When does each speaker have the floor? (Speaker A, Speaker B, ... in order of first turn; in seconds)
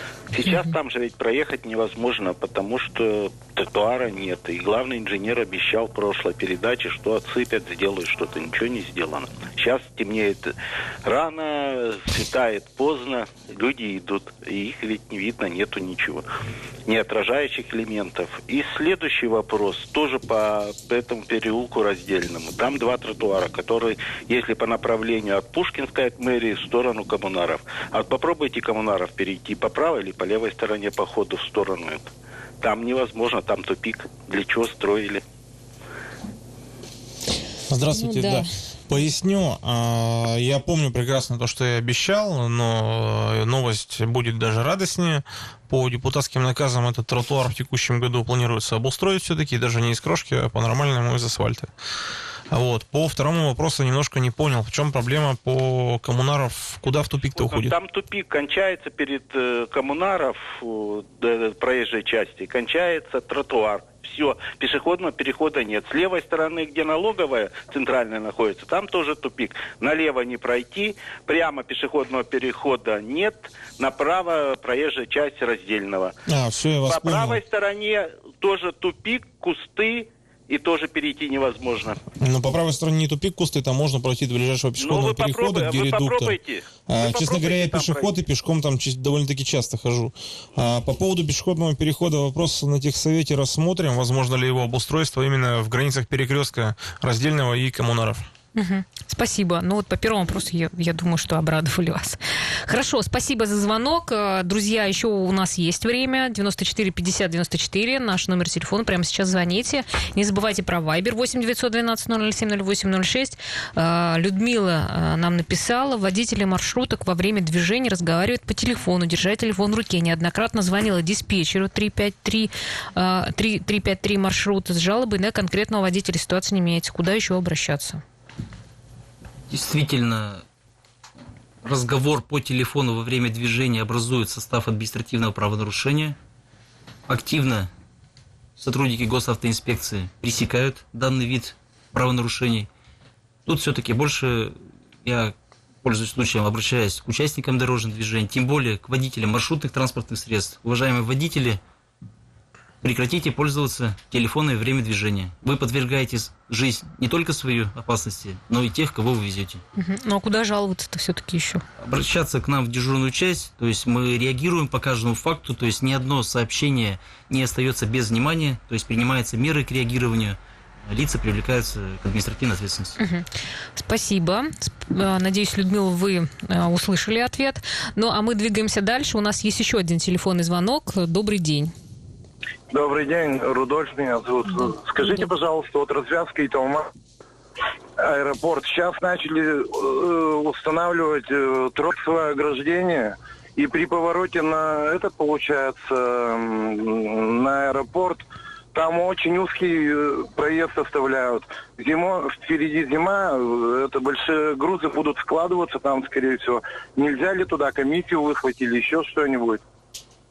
Speaker A: 0.3-10.5, 11.0-16.2, 16.9-35.2, 57.3-76.1, 76.8-82.0, 84.8-88.2
Speaker B: 0.4-0.7, 37.9-38.5, 98.5-128.0, 159.8-161.6, 173.0-181.7
Speaker C: 37.7-51.7, 52.5-57.8, 76.3-77.4, 82.2-98.3
Speaker D: 129.5-130.4, 131.6-136.2, 137.1-137.7, 138.6-142.7, 143.4-151.6, 152.8-159.6, 161.8-173.0
Speaker E: 182.7-186.9, 188.0-209.6